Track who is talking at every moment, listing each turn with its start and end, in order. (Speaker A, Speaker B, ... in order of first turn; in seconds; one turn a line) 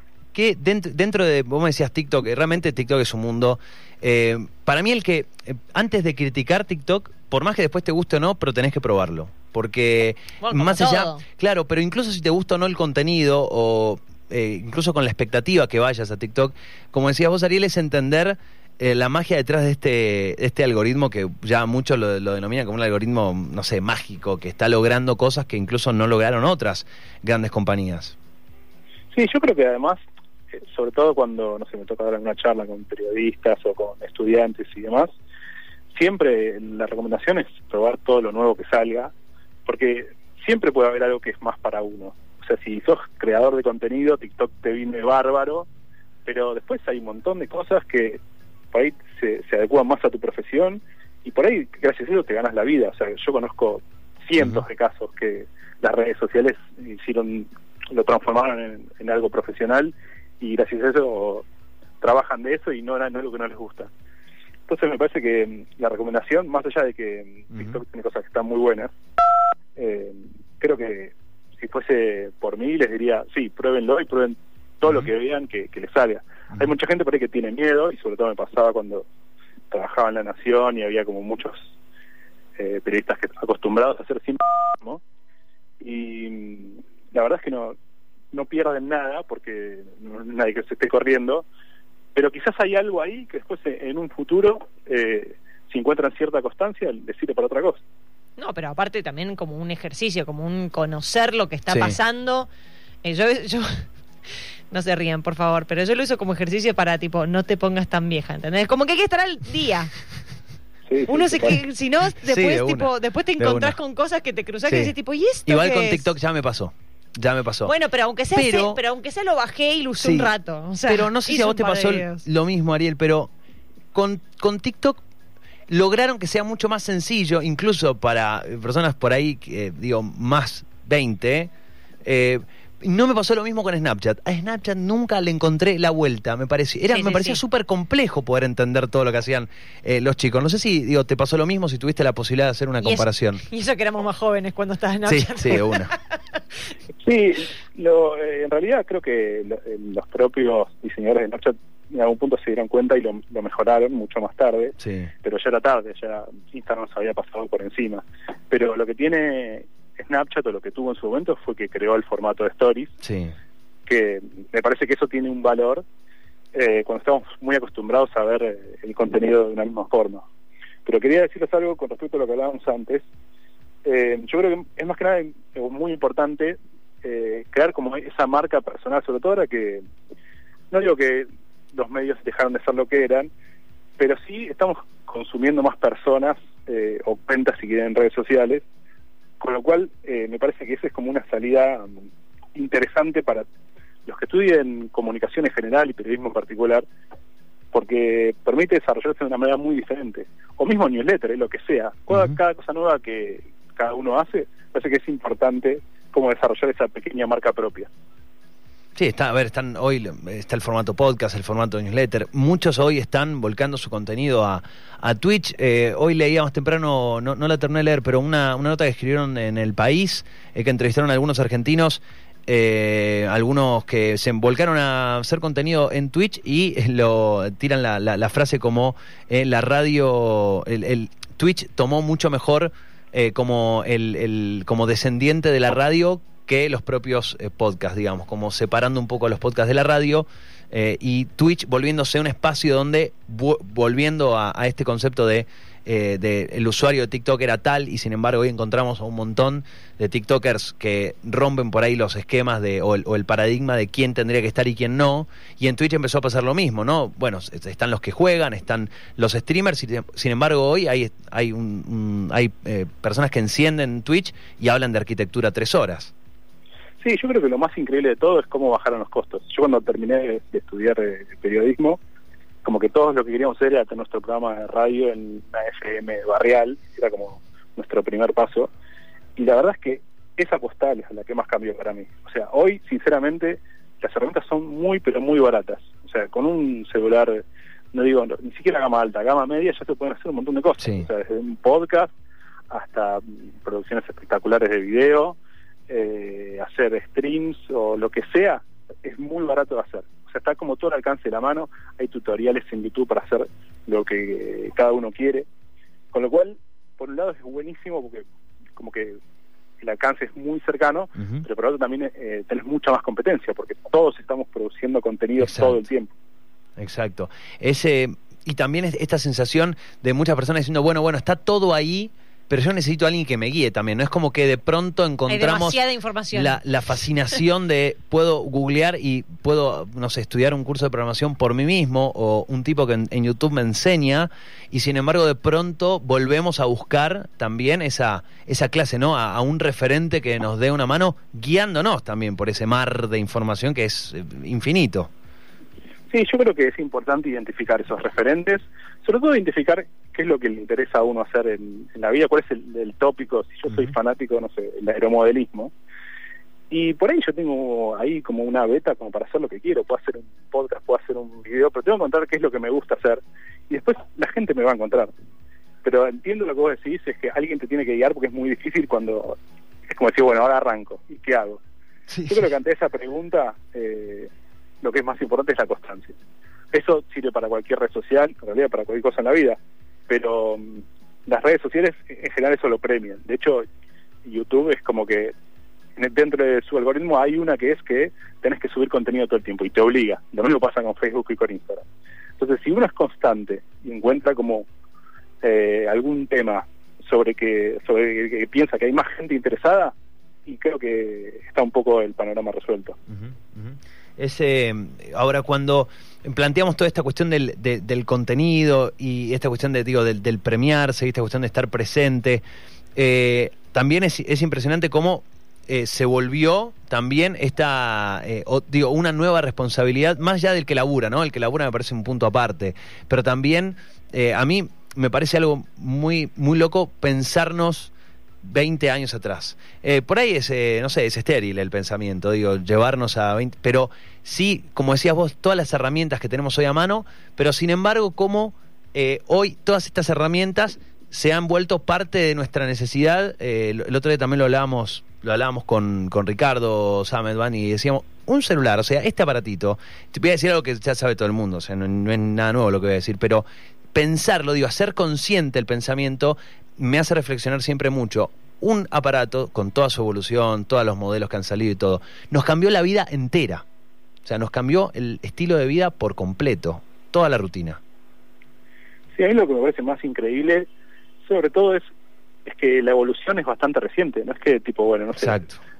Speaker A: 0.3-28.1
Speaker B: 10.4-11.2
Speaker C: 29.1-30.0
Speaker C: 30.5-35.1
Speaker C: 35.9-39.1
Speaker C: 39.7-45.7
Speaker C: 46.2-48.2
Speaker C: 48.7-61.5
Speaker C: 62.0-63.9
Speaker C: 64.7-68.9
Speaker A: 67.5-67.8
Speaker C: 69.8-79.1
Speaker C: 79.7-81.7
Speaker C: 82.6-85.0
Speaker C: 85.8-87.8
Speaker C: 88.3-91.5
Speaker C: 92.2-97.8
Speaker B: 98.4-102.5
Speaker A: 101.7-102.0
Speaker B: 103.0-110.0
Speaker C: 110.9-111.6
Speaker B: 111.1-116.0
Speaker A: 112.2-113.8
Speaker A: 114.7-114.9
Speaker A: 115.5-117.7
Speaker B: 117.7-122.2
Speaker A: 118.3-118.8
Speaker A: 120.0-120.3
Speaker A: 120.9-123.3
Speaker A: 123.9-125.0
Speaker A: 125.7-131.5
Speaker A: 132.1-143.4
Speaker B: 136.9-137.4
Speaker B: 142.8-146.4
Speaker A: 145.1-145.9
Speaker C: 147.0-162.9
Speaker A: 154.8-155.1
Speaker A: 163.0-163.3
Speaker C: 163.9-165.8
Speaker C: 166.5-170.2
Speaker C: 170.9-173.1
Speaker C: 173.8-179.8
Speaker C: 180.7-183.3
Speaker C: 184.0-188.7
Speaker C: 189.4-193.5
Speaker C: 194.1-196.8
Speaker C: 197.7-207.9
Speaker A: 202.1-202.4
Speaker A: 209.0-266.1
Speaker C: 267.0-272.0
Speaker C: 272.6-278.7
Speaker C: 279.4-292.1
Speaker A: 290.8-291.1
Speaker C: 292.7-295.4
Speaker C: 295.9-305.5
Speaker C: 306.1-309.2
Speaker C: 309.8-316.1
Speaker A: 311.2-311.4
Speaker A: 315.4-315.8
Speaker A: 316.8-325.8
Speaker B: 325.3-326.6
Speaker A: 326.3-345.1
Speaker C: 346.1-355.7
Speaker C: 356.7-365.1
Speaker C: 365.8-369.4
Speaker C: 369.9-371.6
Speaker A: 372.1-372.5
Speaker C: 372.3-374.3
Speaker C: 374.8-376.1
Speaker C: 376.7-383.7
Speaker C: 384.2-385.3
Speaker C: 386.0-391.9
Speaker C: 392.4-394.7
Speaker C: 395.4-399.9
Speaker C: 400.5-403.0
Speaker A: 403.1-412.4
Speaker A: 413.0-427.9
Speaker A: 428.4-463.6
Speaker A: 464.2-467.8
Speaker C: 469.1-470.7
Speaker C: 471.2-471.9
Speaker C: 472.4-475.4
Speaker A: 475.2-475.6